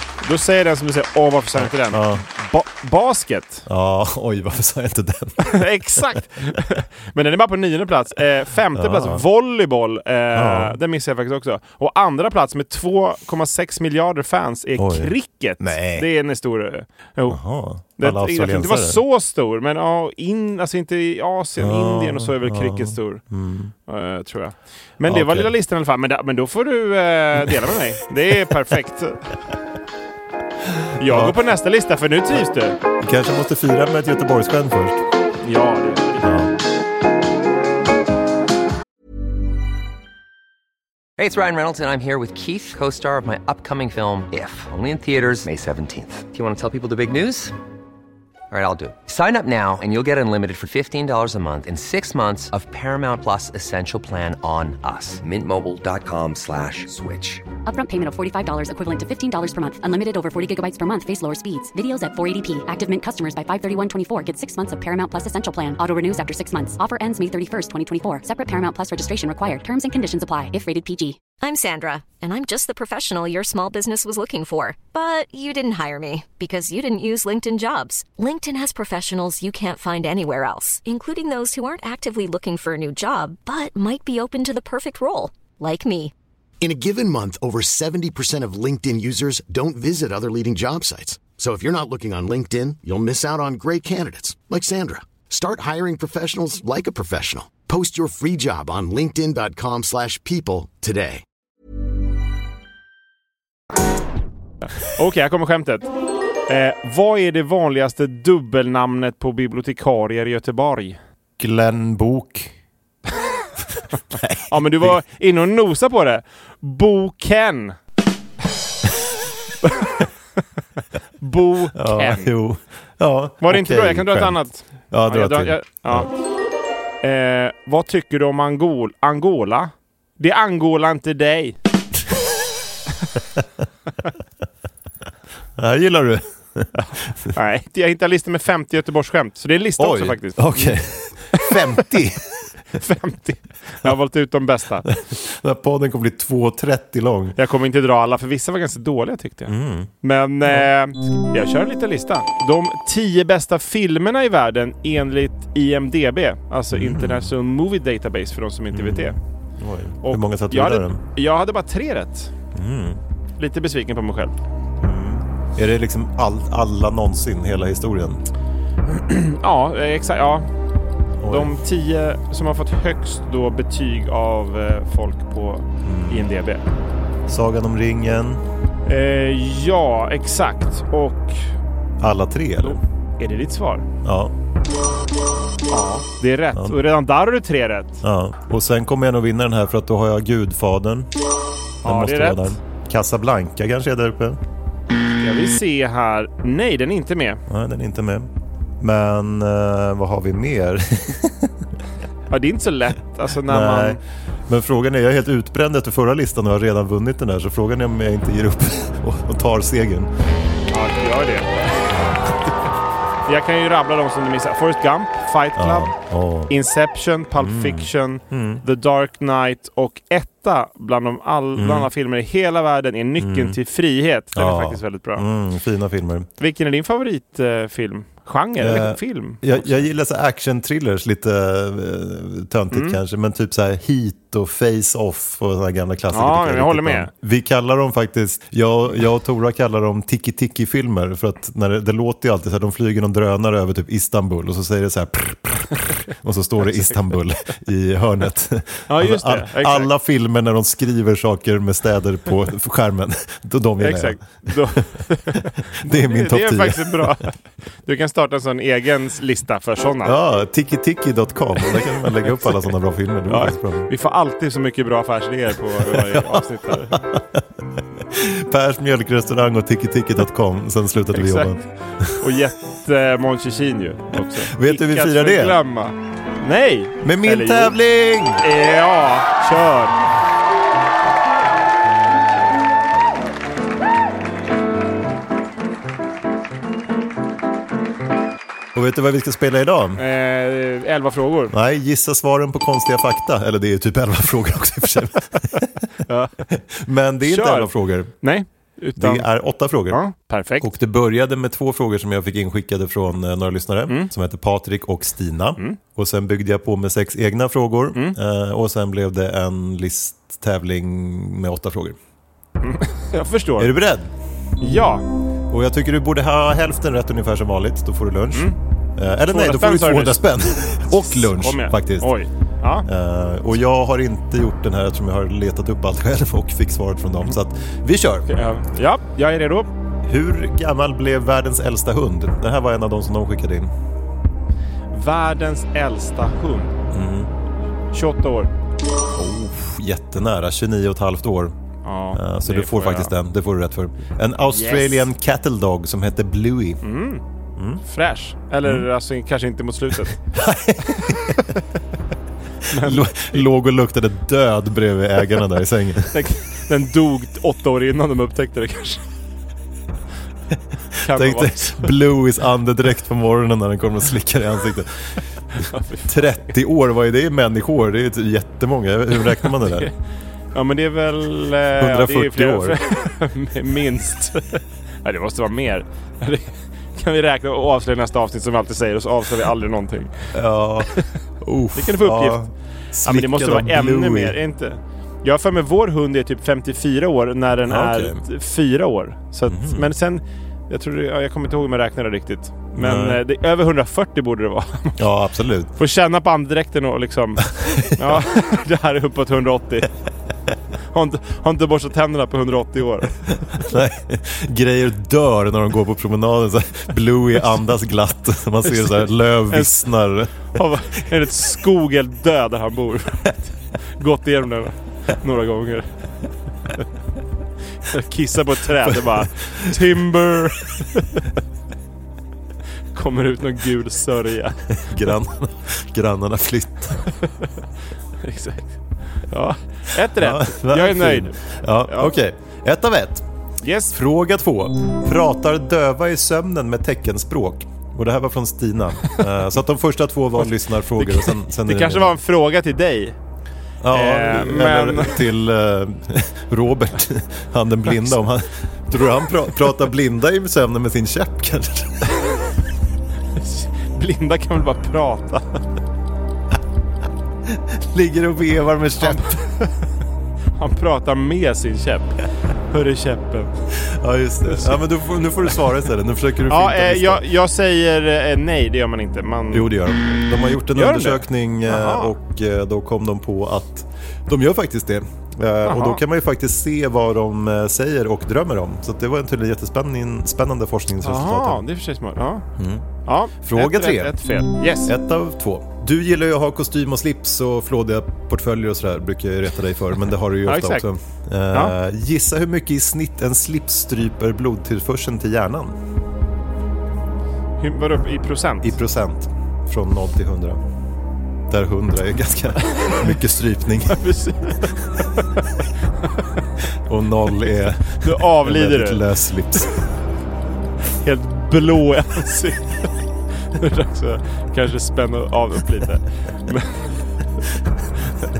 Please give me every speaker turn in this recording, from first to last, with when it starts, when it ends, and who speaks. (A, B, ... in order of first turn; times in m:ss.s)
0:00.2-0:03.6 A
0:01.5-0:02.2 B
0:03.7-0:06.2 B
0:05.4-0:17.4 A
0:08.7-0:09.2 B
0:10.3-0:10.8 B
0:14.8-0:16.1 B
0:17.3-0:19.0 B
0:18.0-0:23.2 A
0:21.6-0:23.7 B
0:23.9-0:29.4 A
0:25.0-0:25.5 B
0:30.7-0:31.4 B
0:31.0-0:32.8 A
0:33.0-0:35.0 B
0:35.4-0:36.3 A
0:36.2-0:36.5 B
0:41.2-0:47.5 C
0:48.5-0:57.4 C
0:57.6-1:11.2 D
1:11.4-1:26.1 E
1:26.6-1:41.2 F
1:44.8-1:45.9 A
1:46.5-1:51.0 A
1:51.4-1:52.5 B
1:54.1-1:55.0 B
1:54.5-1:57.8 A
1:59.6-2:00.1 A
2:01.2-2:02.3 A
2:01.7-2:04.4 B
2:03.4-2:06.1 A
2:04.9-2:06.1 B
2:07.0-2:11.6 A
2:15.6-2:17.3 B
2:16.8-2:20.8 A
2:19.8-2:22.5 B
2:21.3-2:21.8 A
2:22.7-2:24.9 A
2:24.9-2:27.4 B
2:27.4-2:39.2 A
2:29.5-2:29.9 B
2:36.7-2:37.3 B
2:38.7-2:41.0 B
2:40.0-2:42.3 A
2:42.5-2:43.0 B
2:43.4-2:44.4 A
2:44.8-2:48.2 B
2:48.9-2:50.5 A
2:51.2-2:51.6 B
2:51.3-2:56.6 A
2:55.8-2:56.3 B
2:57.3-2:58.4 B
2:58.8-3:01.5 A
3:02.0-3:02.8 B
3:02.6-3:03.9 A
3:04.0-3:04.3 B
3:05.7-3:08.0 A
3:08.0-3:11.1 B
3:11.8-3:12.6 A
3:11.8-3:14.4 B
3:15.2-3:17.4 A
3:17.5-3:21.5 B
3:22.3-3:24.0 A
3:23.4-3:30.1 B
3:30.7-3:31.9 A
3:31.9-3:32.5 B
3:33.2-3:35.9 A
3:35.6-3:36.5 B
3:36.5-3:45.3 A
3:37.4-3:38.6 B
3:41.6-3:41.9 B
3:43.2-3:43.6 B
3:44.3-3:46.3 B
3:46.4-3:49.8 A
3:48.6-4:14.8 B
3:52.7-3:53.0 A
3:56.1-3:57.1 A
4:06.7-4:07.0 A
4:08.9-4:09.9 A
4:13.8-4:20.1 A
4:15.4-4:17.2 B
4:20.0-4:23.9 B
4:22.3-4:22.7 A
4:23.3-4:27.0 A
4:25.8-4:27.4 B
4:28.0-4:32.1 B
4:31.1-4:37.8 A
4:34.4-4:35.6 B
4:37.0-4:38.4 B
4:38.4-4:40.0 A
4:48.7-4:50.0 B
4:50.0-4:51.5 A
4:51.5-4:55.8 B
4:56.0-4:56.4 A
4:56.5-4:58.1 B
4:57.2-4:59.3 A
4:59.0-5:00.0 B
4:59.9-5:00.7 A
5:00.6-5:12.0 B
5:03.9-5:04.1 A
5:12.6-5:13.7 A
5:13.6-5:14.1 B
5:14.6-5:15.0 A
5:15.5-5:22.1 B
5:18.3-5:18.6 A
5:19.3-5:20.3 A
5:20.9-5:22.8 A
5:22.8-5:28.3 B
5:28.3-5:29.7 A
5:30.0-5:33.7 B
5:34.9-5:36.8 A
5:36.9-5:37.3 B
5:37.9-5:38.5 A
5:39.1-5:41.5 B
5:41.8-5:43.1 A
5:42.1-5:46.8 B
5:44.5-5:45.1 A
5:46.8-5:47.2 A
5:47.6-5:47.8 B
5:47.8-5:50.2 A
5:50.3-5:51.5 B
5:51.1-5:51.6 A
5:52.7-5:53.5 A
5:52.7-5:56.2 B
5:56.1-5:59.0 A
6:01.0-6:05.1 B
6:01.0-6:01.9 A
6:05.5-6:06.5 A
6:06.1-6:09.9 B
6:09.4-6:09.9 A
6:10.5-6:20.2 A
6:11.8-6:12.8 B
6:20.3-6:24.4 B
6:21.7-6:22.4 A
6:23.0-6:35.0 A
6:27.6-6:28.2 B
6:29.5-6:29.9 B
6:32.8-6:33.2 B
6:35.0-6:35.7 B
6:35.8-6:39.9 A
6:37.5-6:38.3 B
6:40.9-6:43.2 A
6:43.5-6:50.5 B
6:48.6-6:49.9 A
6:50.4-6:56.0 A
6:57.8-7:01.2 A
6:58.8-6:59.8 B
7:02.9-7:04.6 A
7:04.8-7:07.0 B
7:08.2-7:12.1 A
7:10.1-7:13.2 B
7:13.6-7:14.0 A
7:13.9-7:22.2 B
7:21.0-7:23.2 A
7:23.8-7:32.3 B
7:23.9-7:25.2 A
7:33.3-7:35.6 A
7:37.5-7:39.4 B
7:39.0-7:39.8 A
7:40.6-7:43.5 A
7:43.7-7:47.2 B
7:44.5-7:44.8 A
7:46.5-7:49.7 A
7:49.5-8:01.6 B
7:50.7-7:52.1 A
7:55.6-7:56.0 A
8:01.0-8:02.4 A
8:02.6-8:02.8 B
8:03.0-8:04.9 A
8:03.4-8:15.8 B
8:10.4-8:10.8 A
8:17.6-8:18.8 A
8:18.6-8:20.6 B
8:21.5-8:24.0 B
8:22.7-8:23.0 A
8:23.9-8:26.3 A
8:26.8-8:29.8 B
8:28.0-8:29.0 A
8:31.0-8:32.9 A
8:33.5-8:37.0 A